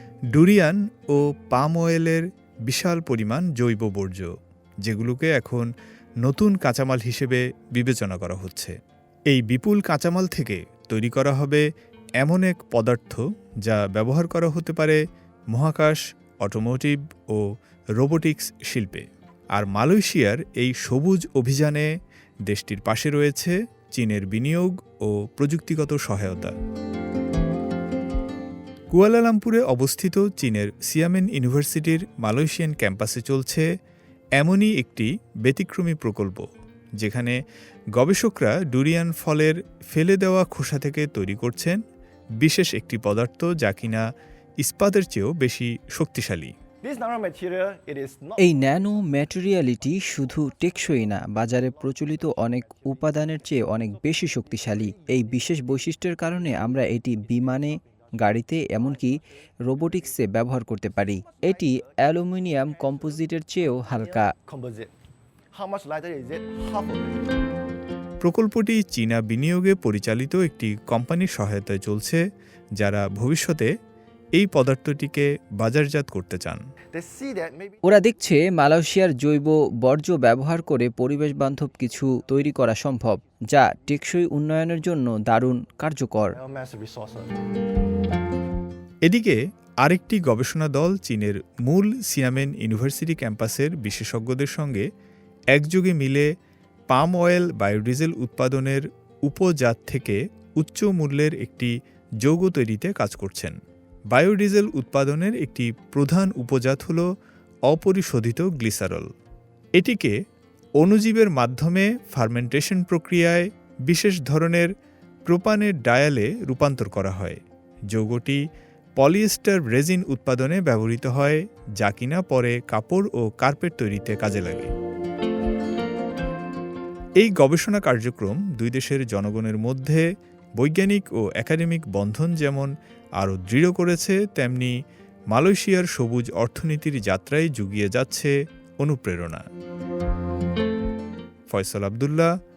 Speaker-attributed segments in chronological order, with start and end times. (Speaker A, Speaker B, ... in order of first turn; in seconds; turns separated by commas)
Speaker A: 0.3-4.3, Speaker A: 4.8-5.7, Speaker A: 6.2-8.8, Speaker A: 9.3-11.6, Speaker A: 12.2-15.0, Speaker A: 15.5-17.4, Speaker A: 18.0-19.1, Speaker A: 19.6-21.9, Speaker A: 22.5-26.6, Speaker A: 28.9-33.7, Speaker A: 34.4-36.5, Speaker A: 37.0-37.4, Speaker A: 38.0-41.8, Speaker A: 42.4-44.0, Speaker A: 44.6-46.5, Speaker B: 46.8-49.1, Speaker C: 48.4-64.3, Speaker B: 49.8-53.7, Speaker B: 54.2-55.8, Speaker B: 56.7-57.7, Speaker B: 58.6-59.1, Speaker B: 59.7-60.2, Speaker B: 61.0-64.9, Speaker B: 65.5-67.3, Speaker A: 68.2-72.2, Speaker A: 72.8-73.7, Speaker A: 74.4-76.6, Speaker B: 76.9-77.8, Speaker C: 77.8-86.4, Speaker B: 86.3-87.3, Speaker A: 89.1-94.8, Speaker A: 95.5-96.3, Speaker A: 96.9-103.6, Speaker A: 104.1-107.0, Speaker A: 107.7-109.1, Speaker A: 109.8-110.1, Speaker A: 110.8-114.7, Speaker A: 115.3-118.4, Speaker A: 119.0-124.7, Speaker A: 127.2-130.1, Speaker A: 130.6-134.7, Speaker A: 135.3-139.4, Speaker A: 141.5-142.3